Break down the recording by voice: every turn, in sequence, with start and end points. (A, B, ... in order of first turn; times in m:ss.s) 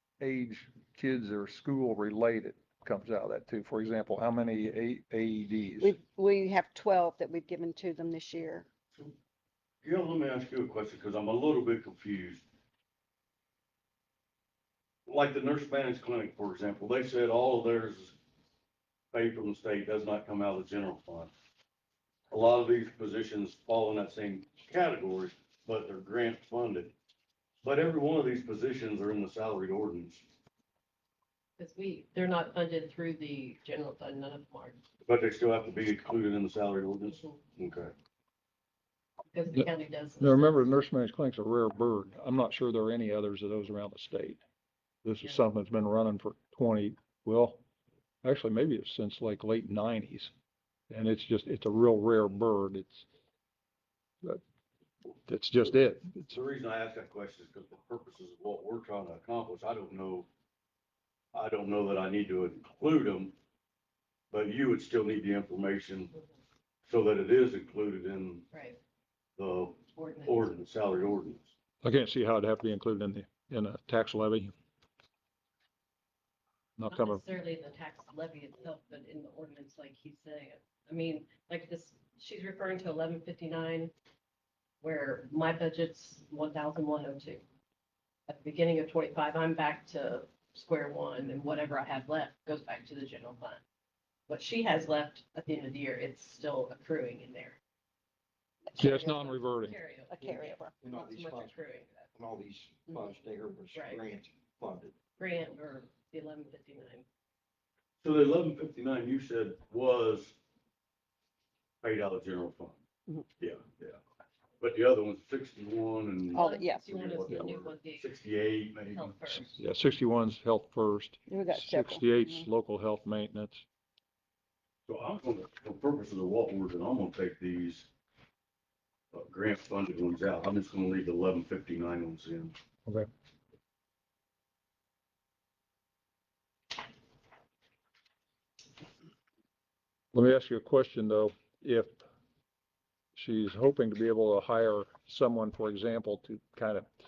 0:00.2-0:06.0 A
0:05.8-0:08.7 B
0:09.8-0:12.4 C
0:15.0-0:18.1 C
0:19.1-0:21.3 C
0:22.3-0:26.9 C
0:27.6-0:30.2 C
0:31.6-0:34.8 D
0:35.0-0:37.9 C
0:37.1-0:37.4 D
0:39.3-0:40.7 D
0:40.2-0:44.4 A
0:45.0-0:47.6 A
0:48.2-0:50.3 A
0:50.9-0:53.0 A
0:55.2-0:56.3 A
0:56.3-1:00.3 C
1:01.3-1:03.3 C
1:04.3-1:06.1 C
1:06.9-1:08.4 C
1:08.5-1:08.8 D
1:09.4-1:11.5 C
1:09.9-1:10.5 D
1:11.8-1:14.5 A
1:16.8-1:17.2 A
1:16.9-1:23.9 D
1:24.8-1:27.4 D
1:28.3-1:33.6 D
1:34.3-1:37.6 D
1:38.7-1:39.3 B
1:38.8-1:39.8 A
1:38.9-1:42.1 D
1:40.1-1:40.7 B
1:40.8-1:41.5 E
1:42.1-1:44.9 E
1:42.9-1:43.1 D
1:43.7-1:44.0 D
1:45.2-1:47.0 D
1:48.0-1:50.4 C
1:51.8-1:52.8 C
1:53.4-1:54.0 C
1:54.6-1:59.4 C
1:56.3-1:56.9 B
1:56.3-1:58.1 D
1:58.9-1:59.5 D
1:59.5-2:03.6 A
2:01.3-2:02.5 B
2:04.9-2:07.9 C
2:09.1-2:12.5 C
2:20.1-2:22.0 A
2:23.1-2:26.9 A